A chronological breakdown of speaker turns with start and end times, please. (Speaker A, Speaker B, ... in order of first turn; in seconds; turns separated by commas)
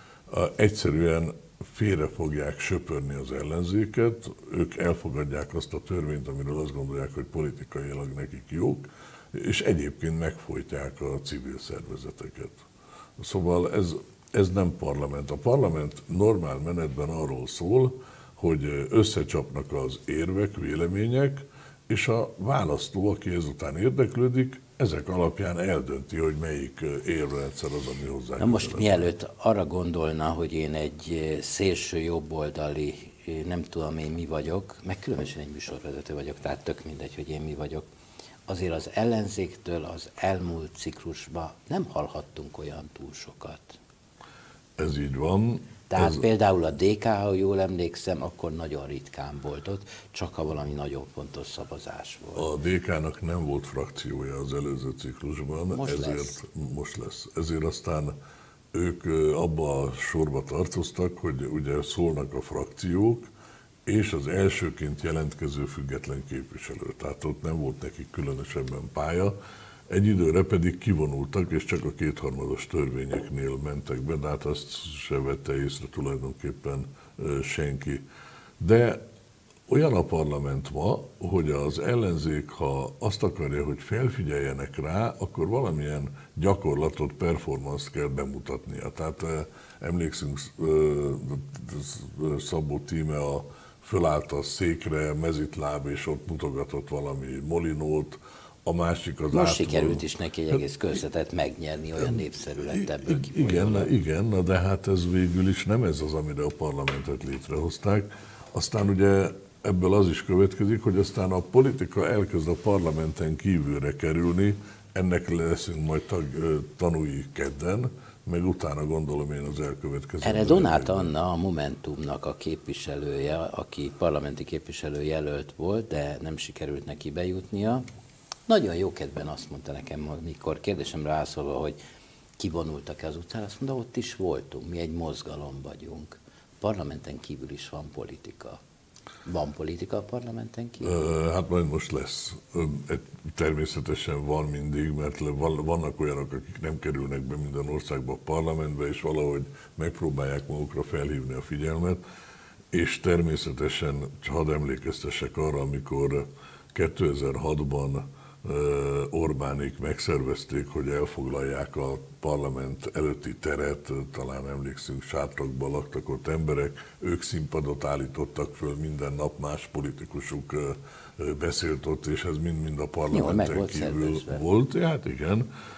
Speaker A: 0.3-12.6, Speaker A: 13.2-29.1, Speaker B: 28.4-37.9, Speaker B: 38.5-43.8, Speaker A: 44.8-46.3, Speaker B: 45.9-52.5, Speaker A: 52.4-58.1, Speaker B: 55.7-56.4, Speaker A: 58.7-63.3, Speaker A: 63.9-69.3, Speaker A: 69.9-78.0, Speaker A: 78.6-79.0, Speaker A: 79.7-100.6, Speaker B: 99.3-103.9, Speaker A: 102.0-121.1, Speaker B: 120.2-127.8, Speaker B: 128.5-131.8, Speaker B: 132.4-138.6, Speaker B: 139.2-141.0, Speaker A: 140.8-152.0, Speaker A: 152.7-175.5, Speaker B: 173.1-174.4